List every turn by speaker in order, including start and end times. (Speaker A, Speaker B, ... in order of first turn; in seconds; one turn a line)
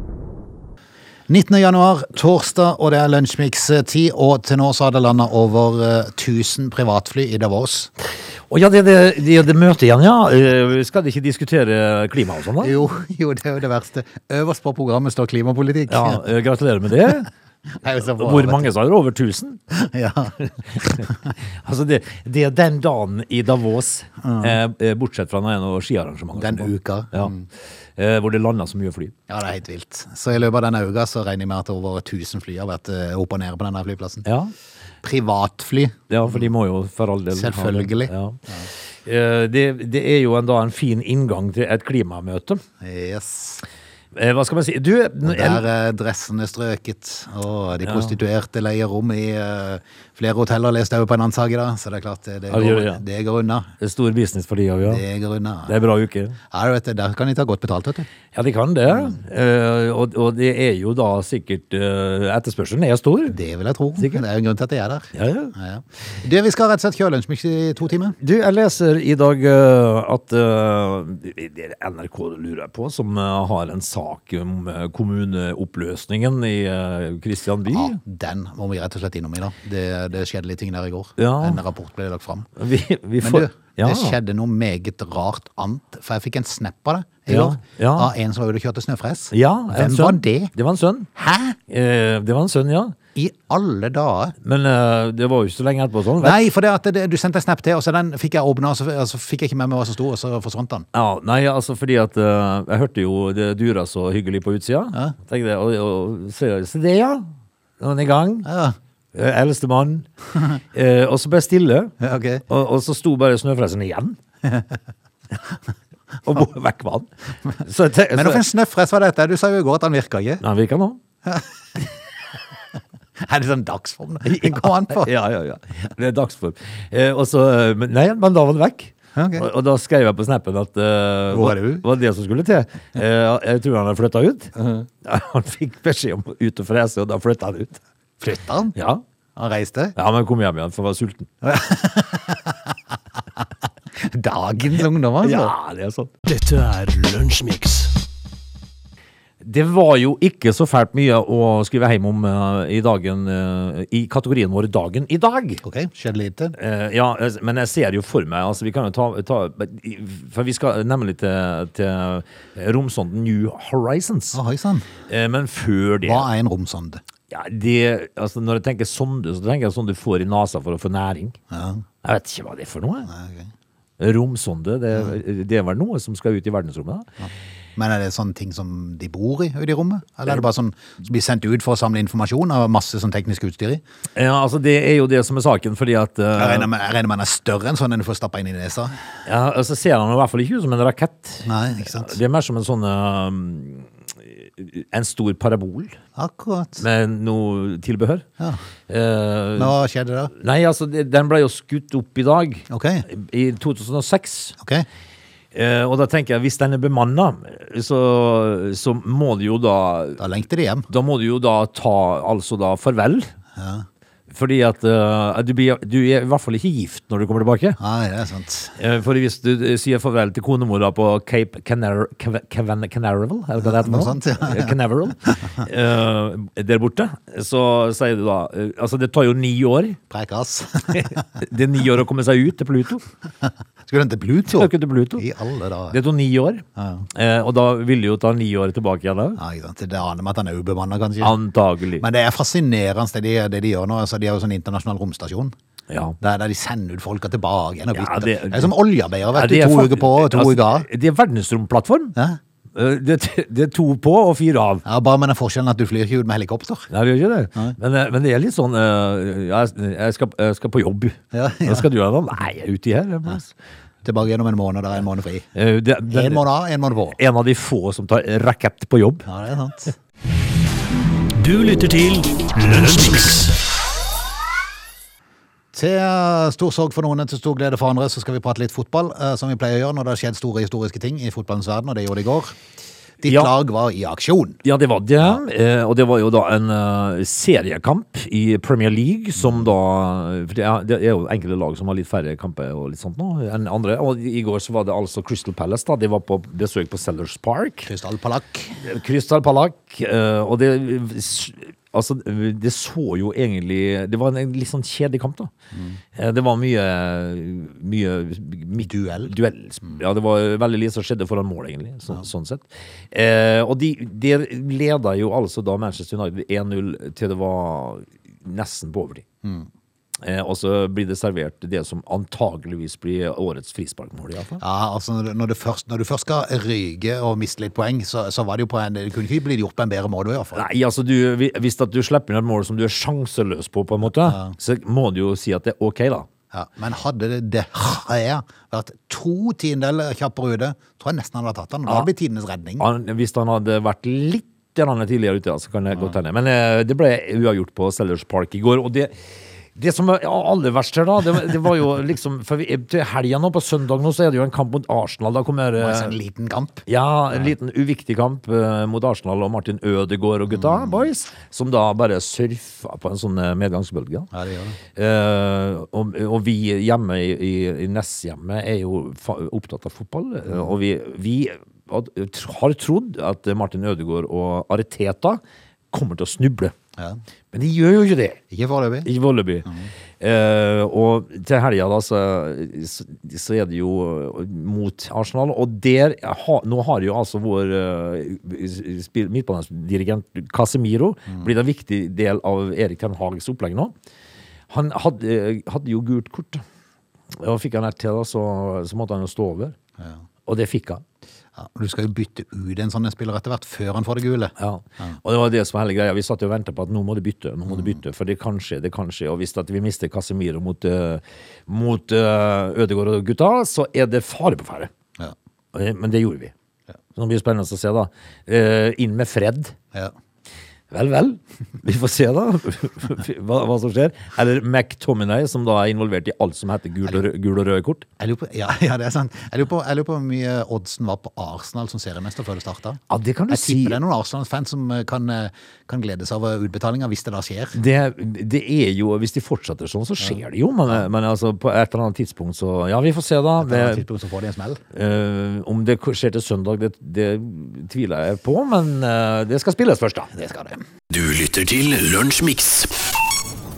Speaker A: 1.3-7.9
Speaker B: 8.5-12.8
Speaker A: 12.6-16.2
Speaker B: 15.9-17.3
Speaker A: 17.8-18.7
Speaker B: 18.0-19.6
Speaker A: 19.7-21.3
Speaker B: 20.7-27.3
Speaker A: 24.2-24.6
Speaker A: 26.3-27.5
Speaker B: 27.9-29.1
Speaker A: 29.3-34.3
Speaker B: 34.2-34.5
Speaker A: 35.0-36.5
Speaker B: 36.1-38.4
Speaker A: 37.3-38.7
Speaker B: 39.0-42.6
Speaker A: 42.8-43.6
Speaker B: 44.1-45.7
Speaker A: 45.2-53.7
Speaker B: 47.8-48.1
Speaker B: 52.5-53.0
Speaker B: 53.8-55.0
Speaker A: 54.8-55.8
Speaker B: 55.7-56.4
Speaker A: 56.5-58.1
Speaker B: 58.3-63.4
Speaker A: 58.9-59.2
Speaker A: 63.3-68.2
Speaker B: 64.0-64.2
Speaker B: 65.1-65.5
Speaker B: 68.2-78.0
Speaker A: 77.7-82.5
Speaker B: 81.2-81.6
Speaker B: 82.5-84.2
Speaker A: 83.2-90.5
Speaker B: 87.3-88.1
Speaker B: 89.3-91.1
Speaker A: 91.2-91.6
Speaker B: 91.7-93.0
Speaker A: 93.1-94.3
Speaker B: 94.4-96.4
Speaker A: 96.2-100.9
Speaker B: 100.9-107.3
Speaker B: 107.8-108.5
Speaker A: 108.4-108.8
Speaker B: 109.1-111.9
Speaker A: 112.0-112.4
Speaker B: 112.5-114.2
Speaker B: 116.2-117.1
Speaker B: 117.6-118.4
Speaker A: 118.1-120.4
Speaker B: 120.4-121.0
Speaker A: 121.3-121.9
Speaker A: 123.3-125.1
Speaker B: 124.2-134.5
Speaker A: 129.1-129.5
Speaker A: 131.3-131.8
Speaker A: 134.6-134.9
Speaker B: 135.0-137.8
Speaker A: 138.2-138.8
Speaker B: 138.8-139.0
Speaker A: 139.4-139.9
Speaker B: 139.9-141.3
Speaker A: 141.4-142.7
Speaker A: 144.0-145.5
Speaker B: 145.2-146.1
Speaker C: 146.2-147.9
Speaker B: 149.4-155.6
Speaker A: 155.6-156.6
Speaker B: 156.6-164.4
Speaker A: 164.3-164.9
Speaker B: 165.1-166.3
Speaker A: 166.0-167.0
Speaker B: 167.3-171.4
Speaker A: 171.5-171.8
Speaker B: 172.0-173.1
Speaker A: 173.1-173.5
Speaker B: 174.0-177.1
Speaker A: 177.8-183.8
Speaker B: 184.1-186.7
Speaker A: 186.3-189.0
Speaker B: 189.2-196.0
Speaker A: 191.4-192.2
Speaker A: 196.2-196.8
Speaker B: 196.8-198.2
Speaker B: 198.9-199.8
Speaker A: 199.6-200.3
Speaker B: 200.3-204.6
Speaker A: 202.7-203.1
Speaker A: 204.6-204.9
Speaker B: 205.5-210.2
Speaker A: 210.2-210.9
Speaker B: 210.9-213.3
Speaker A: 213.6-213.9
Speaker B: 214.3-217.8
Speaker A: 217.8-218.8
Speaker B: 218.8-230.0
Speaker A: 223.6-225.6
Speaker A: 230.1-231.3
Speaker B: 230.9-233.0
Speaker A: 233.4-236.0
Speaker B: 234.5-235.3
Speaker B: 235.9-239.4
Speaker A: 236.8-237.1
Speaker A: 239.4-241.3
Speaker B: 241.2-242.0
Speaker A: 242.0-245.5
Speaker B: 245.9-246.2
Speaker A: 246.2-250.9
Speaker B: 247.9-248.7
Speaker B: 249.3-252.2
Speaker B: 252.8-254.8
Speaker A: 254.8-256.9
Speaker B: 256.9-263.6
Speaker A: 261.3-261.9
Speaker A: 264.0-265.5
Speaker B: 265.6-266.4
Speaker A: 266.1-267.2
Speaker B: 267.2-269.2
Speaker A: 269.2-269.9
Speaker C: 271.4-273.6
Speaker A: 275.7-282.6
Speaker A: 283.2-284.6
Speaker B: 283.2-283.5
Speaker B: 284.6-297.9
Speaker A: 297.9-298.9
Speaker B: 298.8-305.5
Speaker A: 305.7-306.0
Speaker B: 306.1-319.2
Speaker A: 308.8-309.3
Speaker B: 320.2-324.6
Speaker A: 324.6-330.6
Speaker B: 330.6-336.3
Speaker A: 334.2-334.6
Speaker A: 336.5-342.9
Speaker B: 342.8-349.1
Speaker B: 349.8-356.2
Speaker A: 355.8-356.9
Speaker B: 356.9-364.3
Speaker A: 360.5-361.1
Speaker A: 364.3-364.8
Speaker B: 364.9-375.4
Speaker B: 375.9-376.7
Speaker B: 377.5-378.4
Speaker A: 378.5-379.1
Speaker B: 379.1-379.7
Speaker B: 380.2-393.9
Speaker B: 394.7-396.6
Speaker B: 397.3-399.8
Speaker B: 400.5-401.0
Speaker A: 401.6-405.2
Speaker B: 404.6-414.9
Speaker A: 407.7-408.0
Speaker B: 415.7-416.5
Speaker B: 417.1-419.8
Speaker B: 420.9-428.1
Speaker A: 428.2-437.8
Speaker B: 433.1-434.0
Speaker B: 437.8-444.1
Speaker A: 443.6-444.8
Speaker B: 444.9-450.3
Speaker A: 450.3-450.8
Speaker C: 451.1-453.0